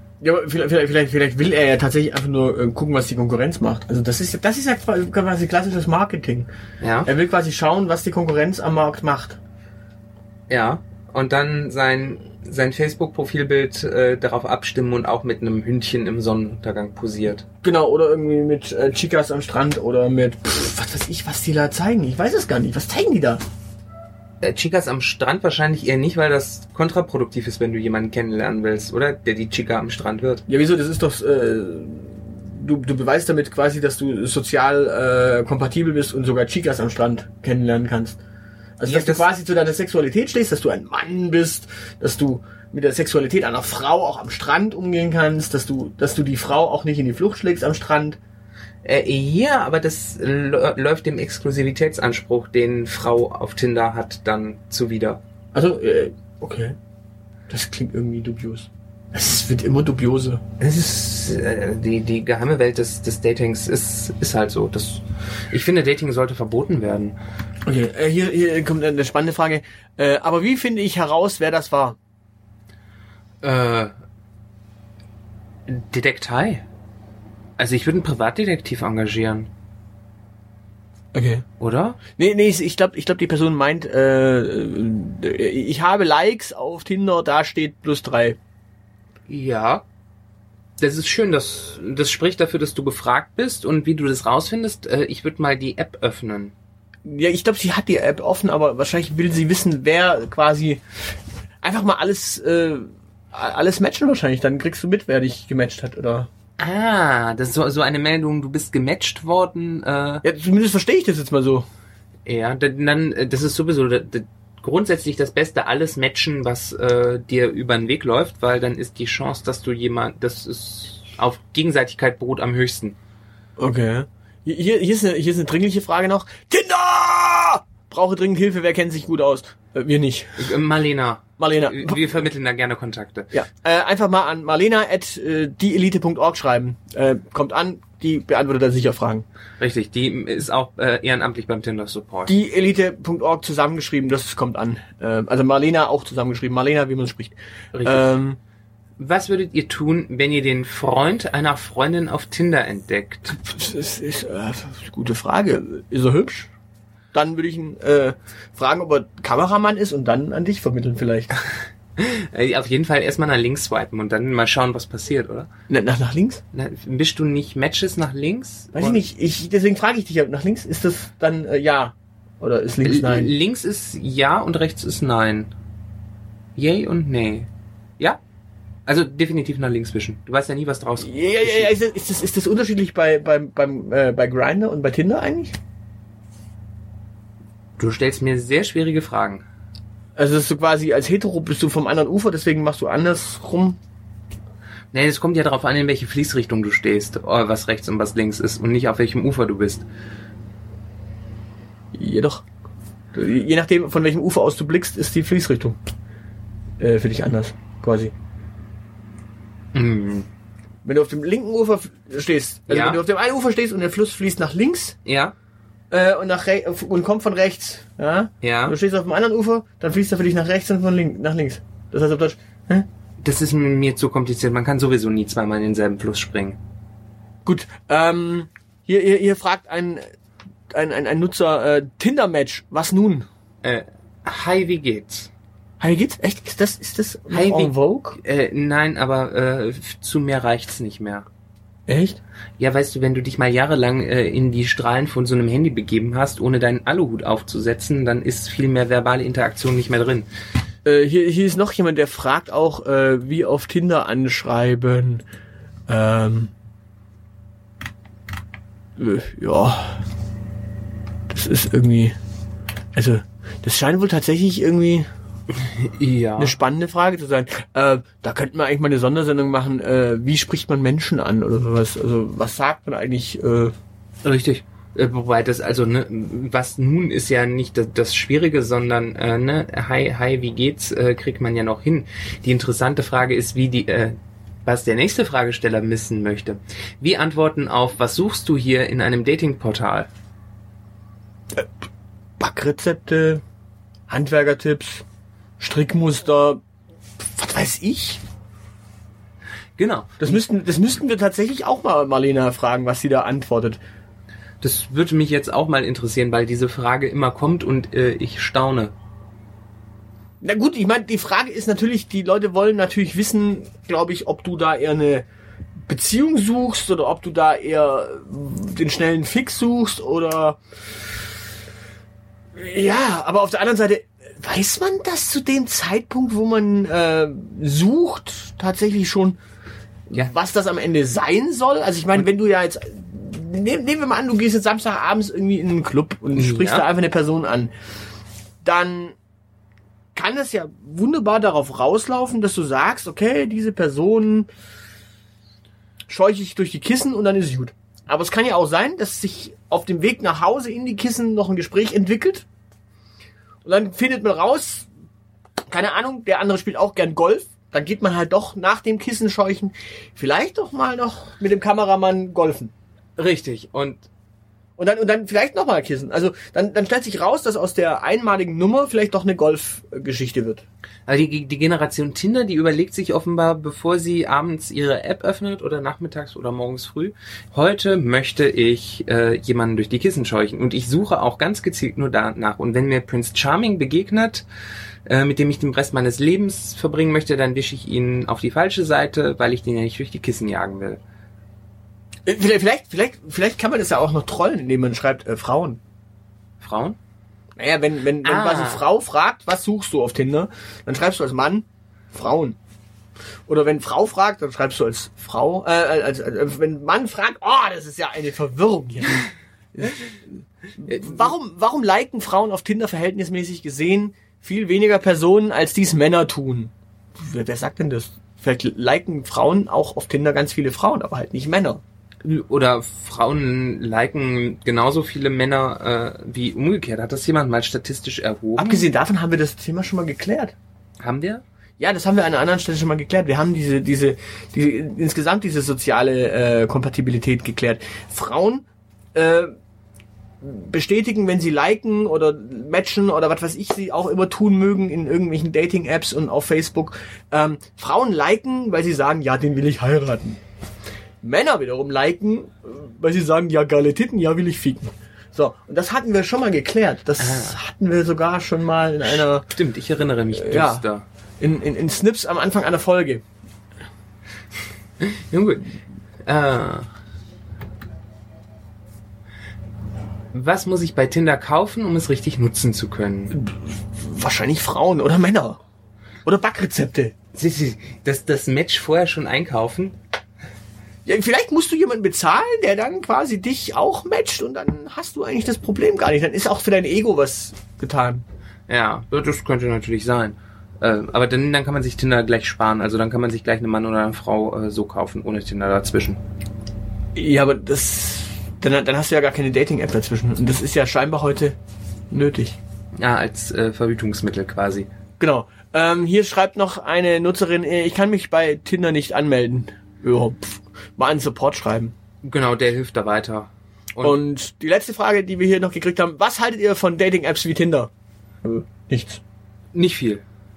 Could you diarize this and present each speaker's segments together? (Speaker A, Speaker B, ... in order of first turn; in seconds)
Speaker A: 0.2-6.5, 7.0-9.4, 17.6-23.4, 30.5-38.2, 38.8-48.2, 55.5-56.8, 57.5-60.4, 67.7-72.0, 81.1-81.4, 82.2-88.4, 97.0-100.8, 101.6-106.3, 110.2-111.6, 123.6-130.5, 131.4-132.0, 133.3-139.2, 142.3-148.4, 153.3-156.5, 157.1-161.4, 165.7-166.4, 168.7-173.3, 181.0-185.5, 190.2-193.8, 201.9-202.4, 203.1-205.8, 206.8-208.1, 210.8-214.9, 215.9-222.8, 227.4-230.0, 230.7-233.2, 235.8-238.2, 241.9-242.2, 250.8-255.2, 255.9-256.5, 259.0-260.0, 261.3-262.1, 262.9-265.1, 266.4-273.7, 292.4-293.4, 294.1-295.0, 295.6-296.6, 297.4-298.2, 300.2-303.8, 310.4-315.2, 315.9-320.6, 322.5-329.4, 330.1-337.7, 338.6-339.1, 340.1-344.5, 346.1-352.4, 353.6-354.9, 355.7-362.7, 364.8-370.6, 392.2-395.8, 397.6-402.6, 403.5-410.2, 410.8-421.8, 428.6-430.5, 431.8-439.5, 440.4-450.4, 451.2-459.5, 460.3-460.8, 461.4-463.2, 473.3-475.6, 476.2-477.1, 481.0-488.2, 497.1-501.6, 502.1-502.6, 505.2-511.9, 514.0-517.9, 518.4-519.2
Speaker B: 6.8-7.1, 10.5-17.4, 24.4-30.4, 38.8-39.3, 48.8-55.2, 60.6-67.2, 73.4-73.9, 75.7-76.6, 77.6-79.5, 81.6-82.0, 89.3-89.8, 90.8-96.5, 106.6-110.2, 112.2-123.0, 130.4-133.3, 139.6-142.3, 147.7-148.1, 149.0-153.4, 162.0-165.5, 166.5-169.0, 172.8-175.5, 176.6-178.2, 178.8-181.7, 187.8-189.4, 194.9-199.8, 209.7-210.3, 212.7-213.0, 215.0-215.3, 218.4-218.8, 223.2-226.6, 233.6-235.3, 237.3-241.2, 242.6-250.3, 265.5-266.6, 274.2-290.1, 299.8-300.4, 304.6-308.9, 336.3-336.9, 363.2-364.1, 371.1-384.4, 385.1-391.0, 396.6-397.0, 398.2-398.9, 422.2-428.9, 431.0-431.4, 457.2-457.6, 459.0-461.0, 465.0-465.7, 466.2-466.9, 470.3-473.3, 477.3-479.9, 488.7-496.2, 503.0-504.9, 512.2-514.2, 519.7-520.2